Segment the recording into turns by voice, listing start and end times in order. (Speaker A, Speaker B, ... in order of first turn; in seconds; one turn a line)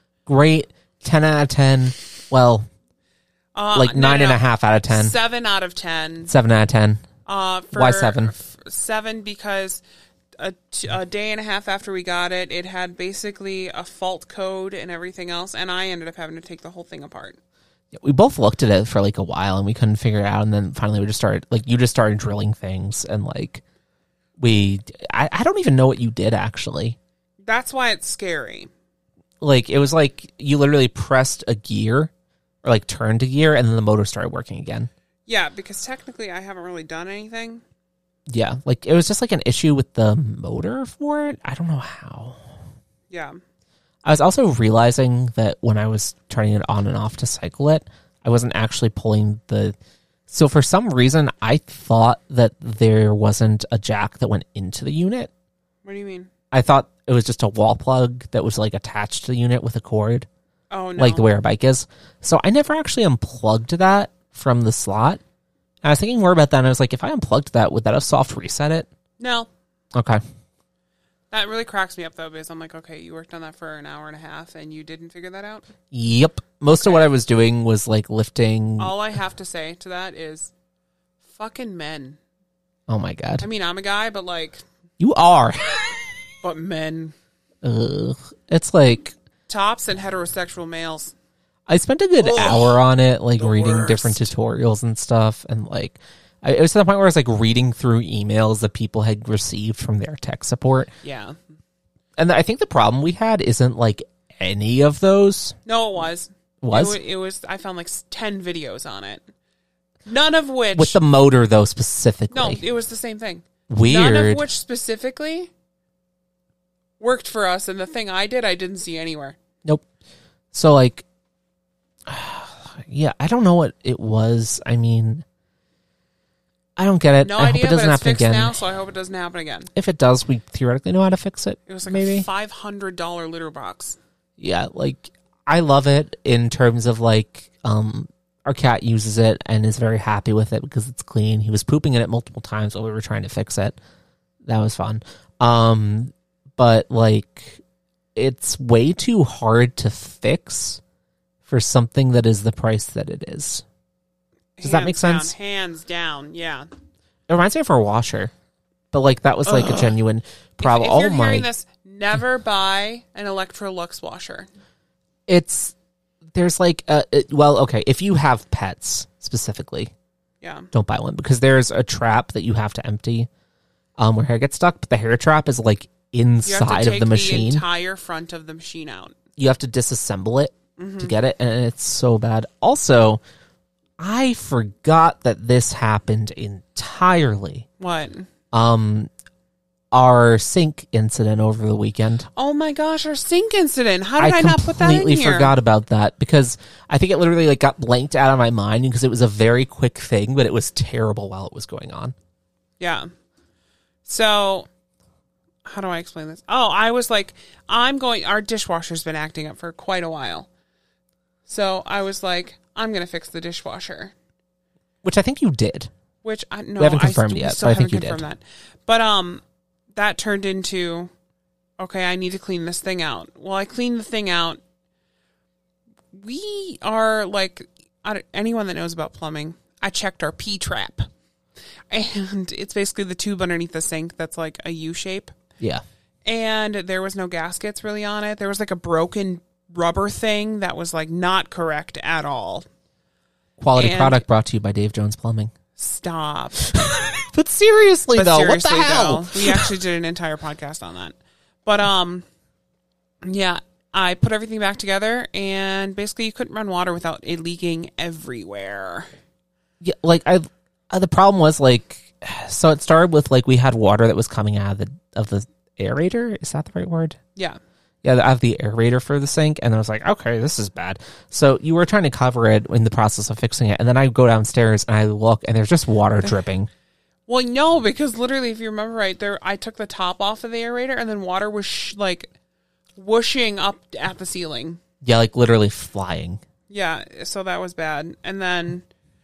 Speaker A: 0.3-2.7
Speaker B: 3.5-6.3
Speaker A: 3.7-5.2
Speaker A: 6.3-7.1
Speaker B: 7.3-9.8
Speaker A: 7.7-8.3
Speaker B: 10.4-17.4
Speaker A: 17.9-23.6
Speaker A: 24.4-27.0
Speaker B: 27.4-28.7
Speaker A: 29.4-32.1
Speaker A: 32.6-34.9
Speaker B: 35.3-37.6
Speaker A: 38.3-42.5
Speaker B: 43.1-43.4
Speaker A: 44.0-49.8
Speaker A: 50.3-55.3
Speaker B: 55.9-56.3
Speaker A: 56.5-60.3
Speaker B: 60.7-61.3
Speaker A: 61.0-65.2
Speaker A: 65.8-68.9
Speaker B: 69.2-69.5
Speaker A: 69.9-70.2
Speaker B: 71.3-75.7
Speaker A: 75.9-79.0
Speaker B: 76.8-77.1
Speaker B: 78.8-80.5
Speaker B: 81.3-82.2
Speaker A: 82.9-83.5
Speaker B: 83.4-84.6
Speaker A: 85.0-86.1
Speaker B: 86.4-87.1
Speaker A: 87.6-89.2
Speaker B: 89.5-91.1
Speaker A: 91.7-100.9
Speaker B: 92.2-92.8
Speaker B: 93.4-94.3
Speaker B: 101.0-101.4
Speaker A: 102.2-105.6
Speaker B: 105.7-109.2
Speaker A: 106.6-107.0
Speaker B: 110.1-111.0
Speaker A: 110.7-112.6
Speaker B: 112.3-115.5
Speaker A: 113.7-114.5
Speaker B: 117.0-119.4
Speaker A: 120.5-121.0
Speaker A: 122.1-125.2
Speaker A: 126.8-128.6
Speaker B: 127.2-129.7
Speaker A: 129.8-132.3
Speaker B: 131.7-134.0
Speaker A: 134.4-143.8
Speaker A: 144.4-147.6
Speaker A: 148.2-150.8
Speaker A: 151.4-153.6
Speaker B: 154.6-156.7
Speaker A: 154.6-155.3
Speaker A: 157.3-158.3
Speaker A: 158.9-161.5
Speaker B: 159.5-159.9
Speaker B: 160.6-164.5
Speaker A: 165.3-165.7
Speaker A: 166.3-169.9
Speaker B: 170.4-170.7
Speaker A: 170.7-173.3
Speaker A: 174.0-177.7
Speaker B: 176.4-179.2
Speaker A: 179.4-183.2
Speaker B: 180.8-181.2
Speaker A: 184.0-187.7
Speaker B: 187.8-188.3
Speaker A: 188.5-189.1
Speaker A: 189.9-192.3
Speaker B: 192.4-195.6
Speaker A: 194.2-202.2
Speaker B: 202.8-203.1
Speaker B: 204.1-204.7
Speaker B: 205.7-210.5
Speaker B: 211.5-214.1
Speaker A: 215.0-215.9
Speaker B: 216.2-219.4
Speaker A: 216.8-218.3
Speaker B: 219.9-221.1
Speaker B: 221.8-224.6
Speaker B: 226.1-231.1
Speaker B: 231.9-235.3
Speaker B: 236.3-242.7
Speaker A: 243.6-245.5
Speaker B: 243.8-244.2
Speaker B: 245.8-246.7
Speaker A: 246.8-249.7
Speaker B: 248.1-252.2
Speaker B: 253.2-259.1
Speaker A: 259.8-267.2
Speaker A: 268.0-276.7
Speaker B: 277.3-282.3
Speaker B: 283.0-284.8
Speaker A: 285.0-286.4
Speaker B: 286.7-288.9